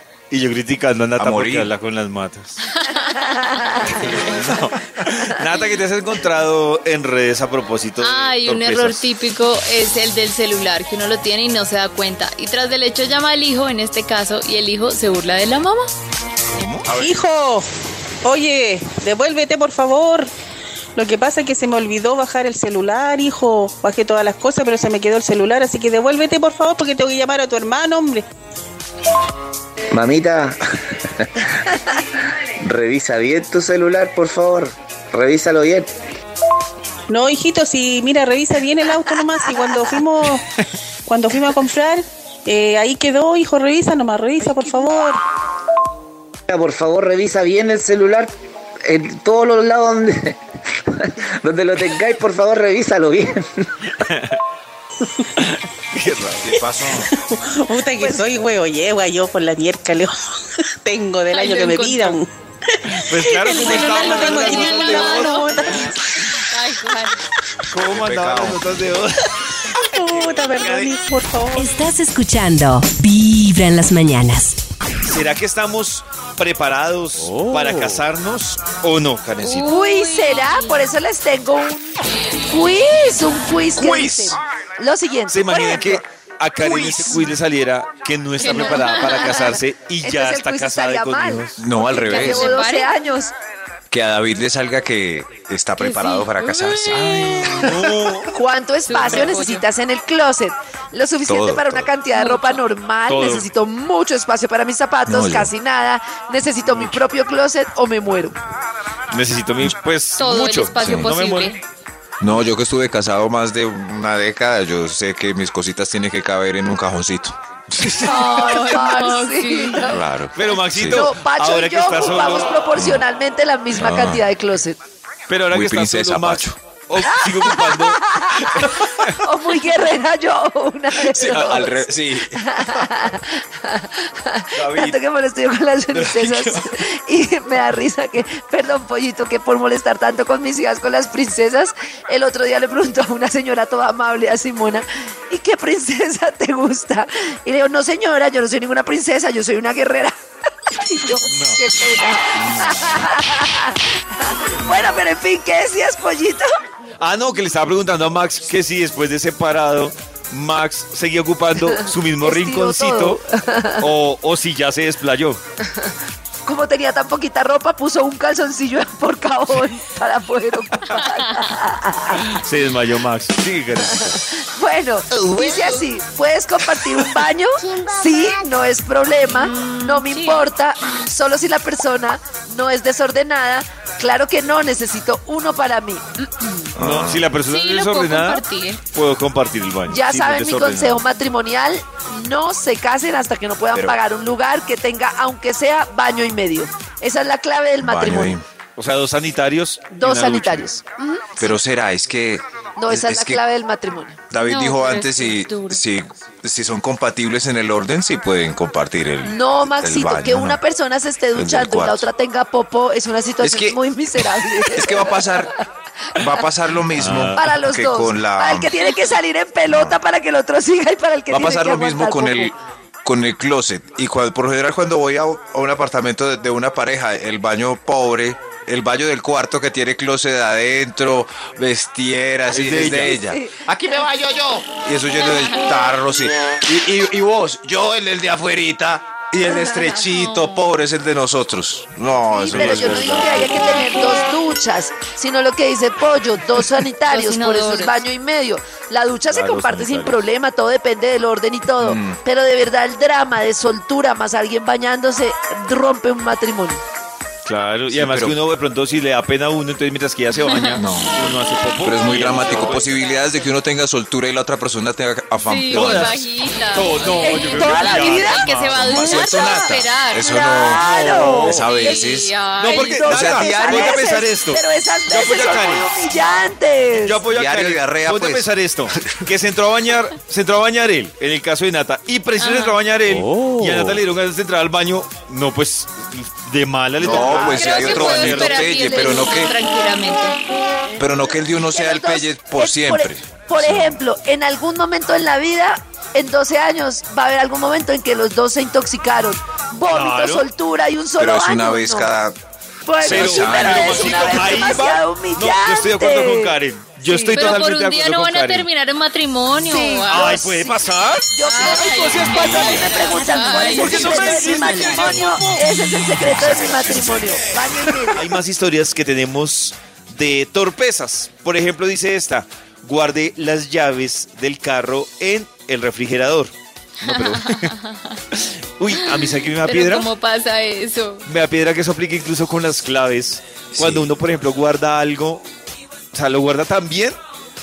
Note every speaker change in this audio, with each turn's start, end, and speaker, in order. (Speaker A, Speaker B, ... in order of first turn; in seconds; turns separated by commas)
Speaker A: 0.3-2.6, Speaker B: 1.2-1.7, Speaker C: 2.7-3.5, Speaker D: 2.9-4.2, Speaker B: 3.9-4.7, Speaker A: 4.3-9.1, Speaker C: 8.0-15.9, Speaker B: 16.6-17.1, Speaker E: 16.9-17.7, Speaker E: 18.2-20.3, Speaker E: 21.0-28.3, Speaker F: 29.9-35.9, Speaker E: 37.1-40.5, Speaker E: 41.1-45.2, Speaker F: 46.5-48.3, Speaker F: 48.9-54.0, Speaker A: 54.0-54.4, Speaker A: 55.4-56.5, Speaker B: 56.2-57.1, Speaker E: 57.0-66.5, Speaker D: 58.0-58.3, Speaker C: 61.3-62.2, Speaker A: 62.9-65.6, Speaker C: 63.6-65.8, Speaker C: 66.5-67.2, Speaker A: 67.7-69.3, Speaker B: 67.8-68.6, Speaker E: 69.7-71.8, Speaker B: 70.6-70.9, Speaker G: 71.5-74.6, Speaker A: 75.1-79.7, Speaker C: 79.4-80.9, Speaker D: 79.7-86.0, Speaker B: 83.8-84.4, Speaker A: 85.3-91.6, Speaker D: 86.6-87.2, Speaker C: 88.4-89.5, Speaker D: 90.0-93.3, Speaker B: 91.6-92.6, Speaker C: 92.1-92.9, Speaker B: 93.9-98.1, Speaker C: 95.8-97.5, Speaker A: 97.0-98.3, Speaker D: 98.3-108.3, Speaker C: 98.9-99.7, Speaker B: 101.3-101.9, Speaker C: 102.1-102.6, Speaker A: 103.1-103.5, Speaker B: 105.1-105.5, Speaker A: 109.1-111.5, Speaker C: 110.2-111.6, Speaker B: 110.8-111.1, Speaker B: 112.2-118.0, Speaker D: 118.0-120.0, Speaker C: 118.0-119.9, Speaker B: 119.8-121.0, Speaker A: 120.3-122.5, Speaker D: 120.9-124.8, Speaker B: 122.8-123.0, Speaker B: 123.8-124.3, Speaker A: 125.3-129.2, Speaker B: 125.5-126.6, Speaker D: 127.1-150.2, Speaker B: 131.0-132.4, Speaker B: 134.6-135.0, Speaker B: 135.9-136.7, Speaker D: 150.7-156.6, Speaker A: 151.3-151.6, Speaker B: 152.4-152.9, Speaker A: 157.0-163.2, Speaker D: 162.2-163.9, Speaker A: 163.8-165.4, Speaker D: 166.5-172.4, Speaker A: 172.3-174.2, Speaker D: 173.9-186.3, Speaker C: 175.4-175.8, Speaker C: 179.3-180.4, Speaker B: 186.8-187.3, Speaker A: 186.8-191.0, Speaker C: 187.5-188.8, Speaker D: 189.9-198.4, Speaker B: 193.7-194.0, Speaker B: 197.8-198.4, Speaker A: 198.8-200.8, Speaker D: 199.9-201.3, Speaker B: 201.4-203.4, Speaker D: 202.8-204.2, Speaker B: 204.3-210.6, Speaker C: 204.4-205.8, Speaker D: 209.2-215.5, Speaker B: 211.3-212.1, Speaker B: 213.4-215.5, Speaker B: 216.2-218.7, Speaker A: 217.0-217.4, Speaker D: 217.3-222.5, Speaker B: 219.7-220.0, Speaker B: 221.3-243.8, Speaker A: 232.5-233.2, Speaker D: 232.8-233.6, Speaker D: 239.5-239.7, Speaker C: 240.1-240.7, Speaker D: 242.3-256.8, Speaker A: 242.5-243.6, Speaker C: 247.1-248.0, Speaker A: 249.3-250.2, Speaker B: 251.8-252.2, Speaker A: 257.5-262.9, Speaker B: 257.9-258.4, Speaker C: 260.4-260.8, Speaker B: 260.7-266.3, Speaker C: 262.3-263.1, Speaker C: 265.4-267.0, Speaker A: 265.7-269.3, Speaker D: 267.1-268.4, Speaker C: 267.5-270.3, Speaker B: 268.8-274.1, Speaker D: 270.2-272.0, Speaker A: 270.8-271.7, Speaker C: 271.6-273.0, Speaker A: 272.6-275.9, Speaker D: 273.0-277.2, Speaker A: 277.0-288.8, Speaker B: 277.3-279.3, Speaker C: 282.4-282.8, Speaker B: 283.1-284.0, Speaker B: 287.0-289.6, Speaker C: 287.1-290.4, Speaker B: 291.0-294.0, Speaker D: 291.7-302.1, Speaker A: 299.9-300.4, Speaker B: 301.2-302.4, Speaker D: 302.9-306.6, Speaker B: 303.0-304.8, Speaker A: 303.0-308.7, Speaker C: 307.1-310.4, Speaker D: 309.6-318.4, Speaker A: 310.1-311.3, Speaker C: 311.4-314.5, Speaker A: 311.8-312.5, Speaker B: 311.9-313.1, Speaker A: 313.6-315.6, Speaker G: 314.2-316.1, Speaker B: 316.2-317.7, Speaker A: 318.1-327.8, Speaker C: 327.0-328.2, Speaker A: 328.3-330.1, Speaker C: 329.2-331.3, Speaker A: 331.3-335.4, Speaker B: 333.7-334.1, Speaker A: 336.1-337.2